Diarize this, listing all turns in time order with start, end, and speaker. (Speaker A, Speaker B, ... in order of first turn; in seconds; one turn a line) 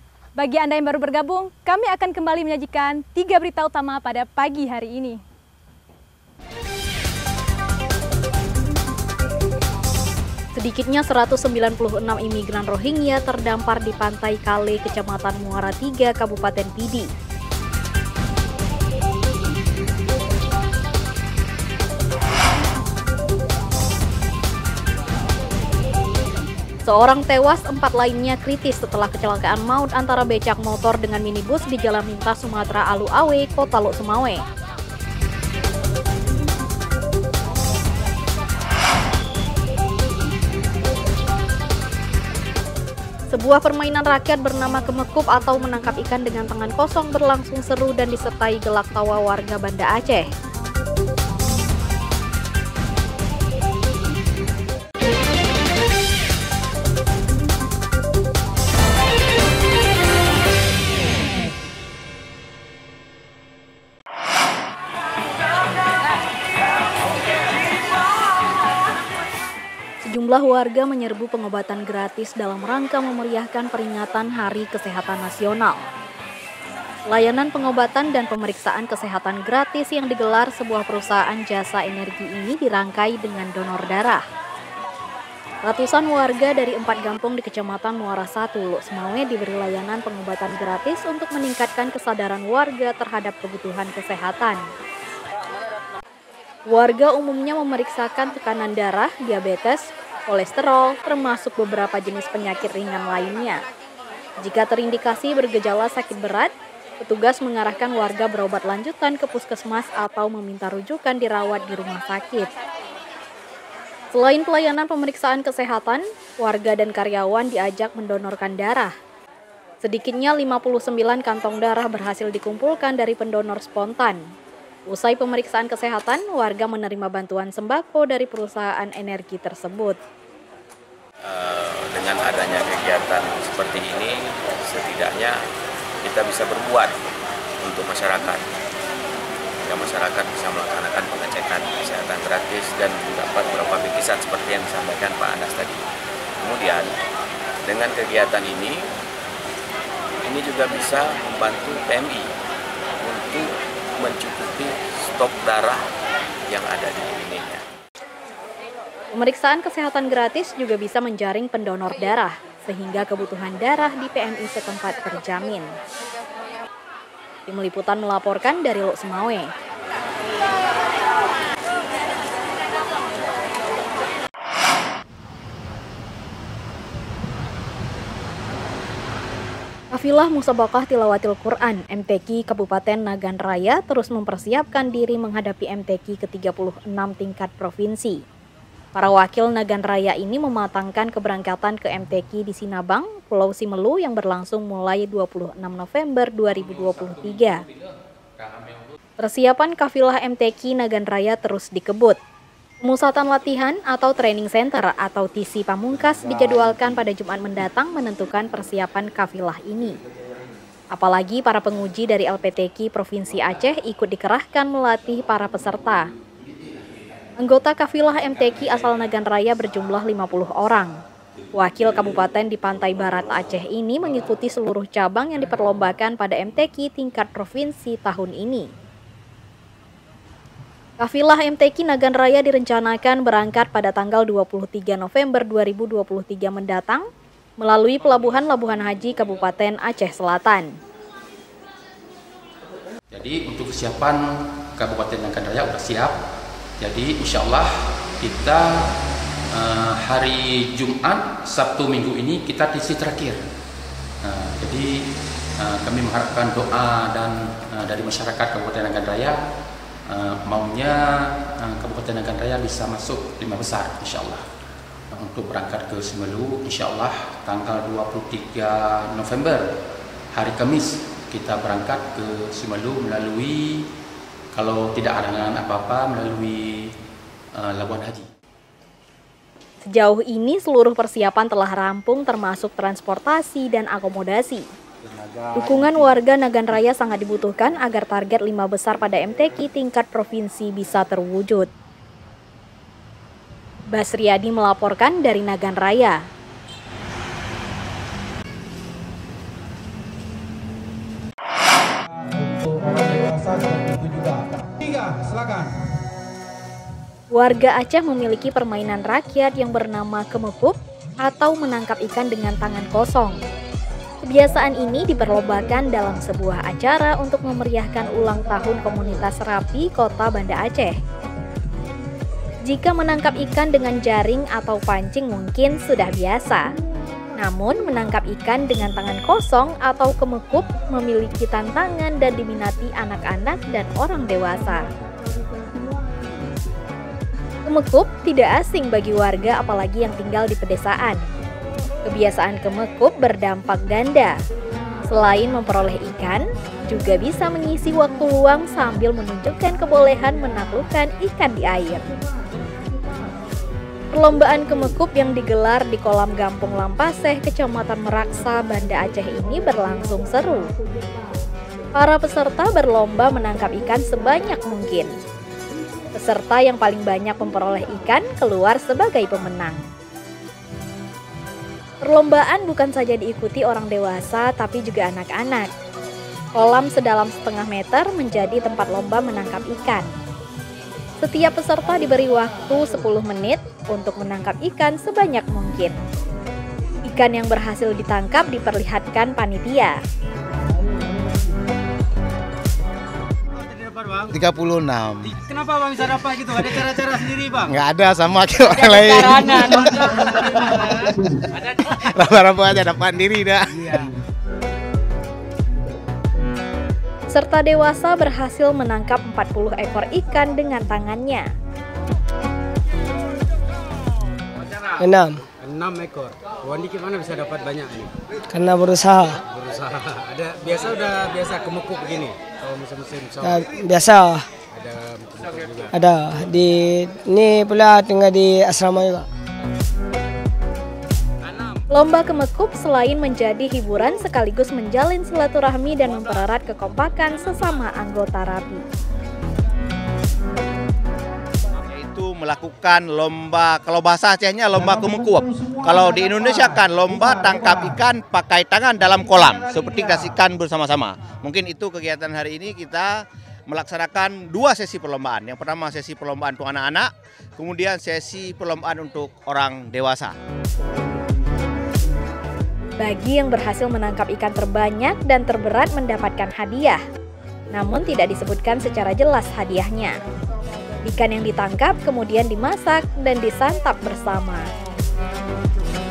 Speaker A: 0.3-5.2
Speaker B: 10.6-17.1
Speaker B: 26.9-34.4
Speaker B: 43.3-50.3
Speaker B: 70.0-75.9
Speaker B: 77.1-84.2
Speaker B: 85.7-94.6
Speaker B: 96.7-103.6
Speaker B: 104.4-106.5
Speaker B: 107.0-112.5
Speaker B: 114.1-118.9
Speaker B: 119.8-124.2
Speaker B: 124.9-130.0
Speaker C: 131.2-135.4
Speaker C: 136.0-137.0
Speaker C: 137.6-138.4
Speaker C: 139.7-145.8
Speaker C: 146.4-146.9
Speaker C: 147.7-148.8
Speaker C: 150.2-152.3
Speaker C: 153.0-155.8
Speaker C: 156.5-157.6
Speaker B: 159.1-165.7
Speaker B: 167.5-169.5
Speaker B: 179.9-188.2
Speaker B: 188.9-197.6
Speaker D: 197.4-197.7
Speaker D: 198.4-198.9
Speaker B: 199.2-202.2
Speaker B: 202.8-210.0
Speaker B: 210.9-216.0
Speaker B: 217.4-220.9
Speaker B: 221.6-228.7
Speaker B: 231.0-237.1
Speaker B: 237.6-240.7
Speaker D: 243.1-246.2
Speaker D: 246.8-248.7
Speaker D: 249.5-253.4
Speaker D: 254.2-259.4
Speaker D: 260.1-264.4
Speaker D: 265.1-269.6
Speaker D: 270.3-273.9
Speaker D: 274.5-276.9
Speaker D: 277.5-278.2
Speaker B: 279.9-284.6
Speaker B: 285.6-291.7
Speaker B: 293.9-296.2
Speaker E: 302.4-305.8
Speaker B: 307.3-313.4
Speaker B: 314.2-320.9
Speaker B: 322.7-326.6
Speaker B: 327.4-334.8
Speaker B: 337.6-341.2
Speaker B: 342.1-344.3
Speaker B: 345.1-352.1
Speaker B: 354.1-360.7
Speaker B: 361.9-365.1
Speaker B: 366.1-369.8
Speaker B: 372.0-375.7
Speaker B: 376.6-380.1
Speaker B: 381.2-386.0
Speaker B: 387.1-390.0
Speaker F: 393.5-394.4
Speaker G: 394.3-395.3
Speaker F: 395.2-397.8
Speaker G: 396.6-396.9
Speaker G: 397.7-404.0
Speaker F: 398.6-401.1
Speaker F: 403.7-404.0
Speaker B: 407.3-411.5
Speaker H: 415.0-415.4
Speaker F: 415.5-418.1
Speaker H: 418.5-419.4
Speaker F: 419.5-423.7
Speaker H: 423.4-424.5
Speaker F: 424.7-425.9
Speaker H: 425.9-429.3
Speaker B: 431.9-438.8
Speaker G: 441.9-453.1
Speaker G: 453.7-460.3
Speaker B: 463.0-467.0
Speaker B: 467.7-470.1
Speaker B: 471.0-474.6